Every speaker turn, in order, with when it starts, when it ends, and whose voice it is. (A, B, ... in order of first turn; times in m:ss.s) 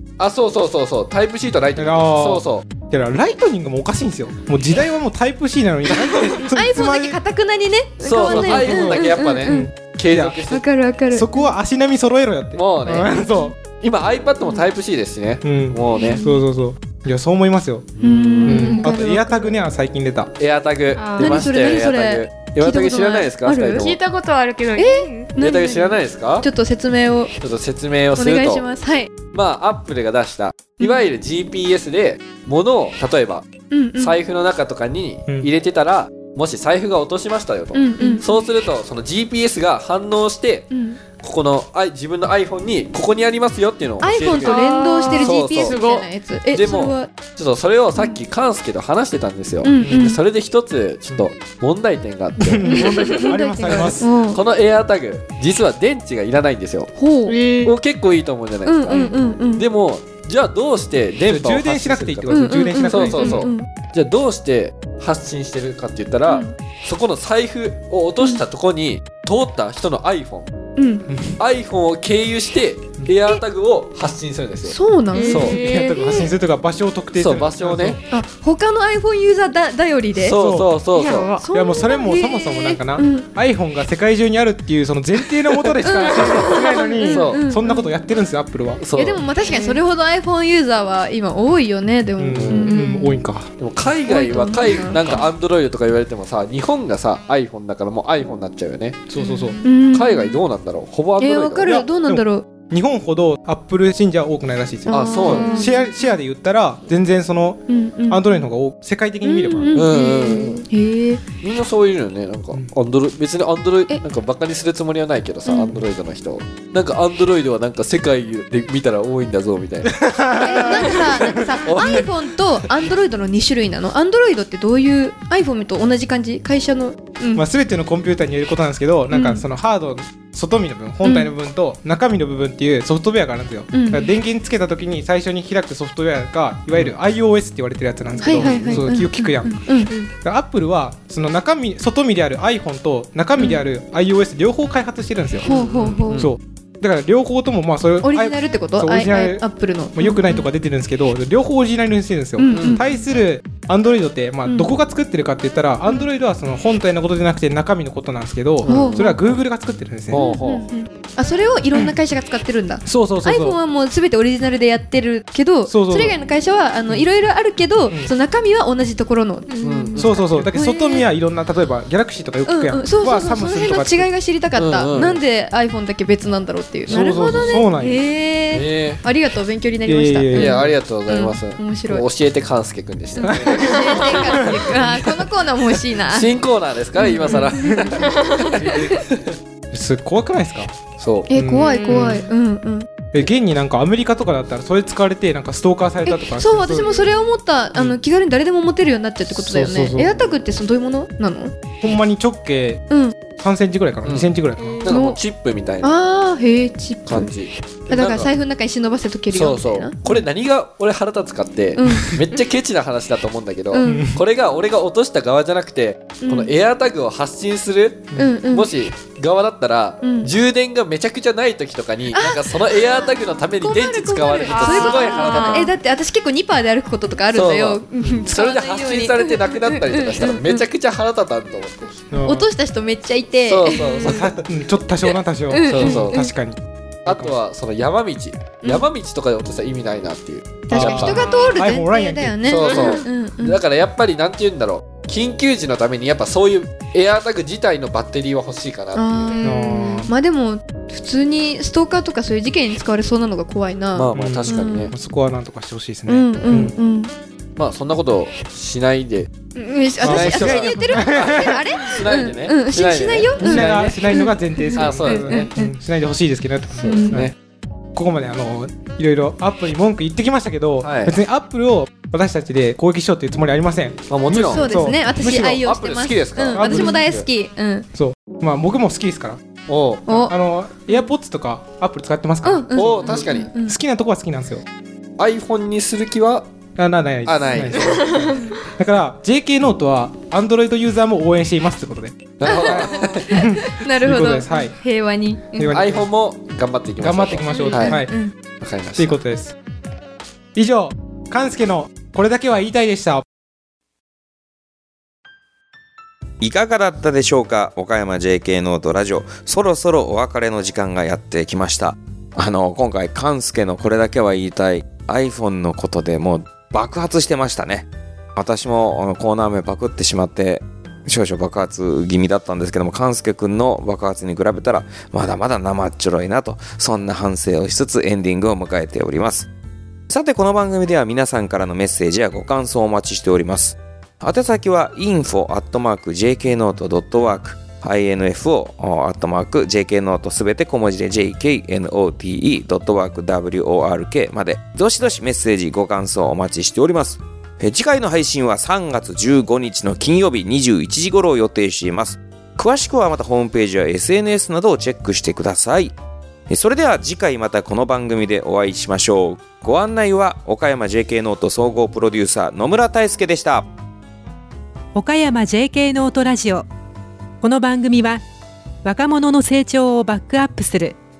0:00.2-0:02.7 A
0:01.8-0:07.2 B
0:06.4-0:09.7 C
0:08.0-0:10.6 A
0:08.2-0:10.4 B
0:10.5-0:11.5 C
0:11.1-0:13.6 B
0:12.6-0:13.1 A
0:13.6-0:16.2 A
0:15.4-0:17.9 B
0:16.0-0:16.4 C
0:18.0-0:18.8 A
0:18.0-0:19.3 D
0:18.0-0:19.5 C
0:18.4-0:20.3 B
0:20.4-0:24.0 A
0:20.9-0:21.4 D
0:21.2-0:23.9 C
0:23.7-0:25.3 D
0:24.8-0:27.3 C
0:25.4-0:26.4 A
0:27.4-0:28.6 A
0:28.1-0:29.1 C
0:29.3-0:33.4 A
0:33.7-0:34.2 C
0:34.0-0:45.8 A
0:37.7-0:38.2 C
0:38.0-0:38.3 D
0:40.7-0:41.0 C
0:44.0-0:47.1 C
0:44.4-0:46.1 D
0:46.5-0:56.9 A
0:49.6-0:50.2 C
0:49.8-0:50.2 B
0:52.4-0:54.1 B
0:52.6-0:54.4 C
0:53.2-0:53.8 D
0:57.0-0:57.4 C
0:57.3-0:57.7 D
0:57.6-1:10.5 A
0:58.6-0:59.6 C
1:01.2-1:03.4 B
1:02.3-1:03.7 C
1:03.2-1:03.4 D
1:06.3-1:06.5 C
1:11.1-1:11.4 B
1:11.4-1:15.6 A
1:14.6-1:16.2 C
1:15.1-1:16.3 D
1:15.4-1:18.0 B
1:17.1-1:18.0 A
1:18.1-1:20.4 C
1:20.2-1:21.3 A
1:20.3-1:20.8 B
1:20.9-1:21.5 D
1:21.4-1:23.3 C
1:21.5-1:28.8 B
1:25.5-1:27.5 A
1:25.8-1:27.8 C
1:28.8-1:29.2 A
1:28.9-1:33.2 C
1:29.4-1:29.8 D
1:32.2-1:33.5 B
1:32.3-1:32.8 A
1:33.6-1:39.1 A
1:34.0-1:35.2 C
1:39.1-1:39.6 B
1:39.2-1:39.6 D
1:39.6-1:40.4 C
1:39.9-1:41.7 A
1:41.2-1:42.5 C
1:41.6-1:49.7 B
1:44.9-1:46.2 C
1:44.9-1:45.6 A
1:44.9-1:45.8 D
1:47.7-1:48.4 C
1:49.2-1:51.2 C
1:49.7-1:50.6 A
1:51.4-2:01.1 A
1:55.4-1:55.8 C
1:59.8-2:02.0 B
2:00.4-2:07.4 C
2:01.6-2:02.1 A
2:07.3-2:40.2 B
2:09.1-2:09.4 C
2:11.0-2:11.3 C
2:13.7-2:14.1 C
2:18.2-2:18.8 D
2:18.2-2:20.0 C
2:18.3-2:18.9 A
2:23.4-2:23.6 C
2:25.4-2:26.3 C
2:25.5-2:26.2 D
2:25.5-2:26.3 A
2:28.0-2:30.4 C
2:32.4-2:33.0 C
2:32.5-2:32.8 A
2:34.4-2:34.7 C
2:38.6-2:39.3 A
2:38.6-2:39.2 C
2:40.1-2:40.6 A
2:40.1-2:51.1 C
2:42.8-2:43.6 B
2:45.7-2:46.2 B
2:49.5-2:50.1 D
2:49.6-2:50.1 A
2:50.0-2:54.1 B
2:52.4-3:02.0 C
2:54.6-2:55.2 A
2:56.9-2:57.5 A
2:56.9-2:58.0 B
2:58.5-2:59.0 A
2:59.9-3:00.7 B
3:00.3-3:05.0 A
3:03.2-3:06.4 C
3:03.2-3:05.0 B
3:06.1-3:09.4 A
3:07.0-3:07.9 C
3:08.6-3:09.0 C
3:09.7-3:10.7 B
3:11.0-3:11.3 A
3:11.3-3:12.9 C
3:11.3-3:12.2 B
3:11.6-3:12.3 D
3:13.1-3:17.0 B
3:16.0-3:21.5 C
3:19.3-3:20.3 B
3:21.8-3:24.9 B
3:22.9-3:23.2 C
3:24.0-3:24.3 A
3:24.6-3:24.9 D
3:24.8-3:25.9 A
3:24.9-3:25.2 C
3:25.8-3:27.3 C
3:27.0-3:28.3 A
3:27.9-3:30.3 C
3:29.3-3:45.7 A
3:31.8-3:32.4 C
3:33.7-3:34.1 C
3:33.8-3:34.2 B
3:36.2-3:36.5 C
3:38.2-3:38.7 C
3:40.0-3:40.3 C
3:42.1-3:50.6 C
3:44.5-3:45.7 D
3:47.3-3:52.1 A
3:48.0-3:48.2 B
3:52.1-3:52.5 B
3:52.2-3:54.3 C
3:53.4-3:54.4 A
3:54.0-3:57.3 B
3:55.1-3:56.3 C
3:55.7-3:56.2 A
3:57.0-4:01.3 A
3:58.6-3:58.9 C
4:00.7-4:03.6 C
4:00.7-4:02.4 B
4:01.1-4:01.5 D
4:02.4-4:09.4 A
4:02.7-4:03.0 D
4:08.9-4:14.9 C
4:09.3-4:09.9 D
4:09.4-4:10.1 B
4:13.9-4:14.9 A
4:14.1-4:16.8 B
4:16.1-4:17.1 C
4:17.6-4:19.3 A
4:19.6-4:25.8 C
4:20.0-4:24.2 A
4:20.0-4:21.6 B
4:23.4-4:27.3 B
4:24.8-4:25.5 A
4:26.8-4:27.3 A
4:26.8-4:27.2 C
4:27.9-4:35.6 B
4:30.8-4:31.2 A
4:34.1-4:37.2 A
4:34.5-4:37.9 C
4:36.5-4:37.1 B
4:37.9-4:39.4 B
4:39.7-4:40.1 A
4:40.1-4:40.4 C
4:40.1-4:44.6 B
4:42.4-4:43.7 C
4:42.8-4:43.5 A
4:45.2-4:46.5 A
4:46.8-4:54.8 B
4:47.2-4:48.3 A
4:52.4-4:53.3 A
4:52.4-4:55.7 C
4:55.6-4:56.1 B
4:55.7-4:58.0 A
4:57.0-4:58.2 B
4:57.5-4:58.3 C
4:58.6-4:59.2 A
4:59.0-4:59.6 B
5:00.5-5:03.2 B
5:06.4-5:29.5 E
5:30.1-5:55.9 E
5:56.5-6:03.7 E
6:04.9-6:06.7 F
6:07.4-6:08.2 F
6:08.8-6:11.0 F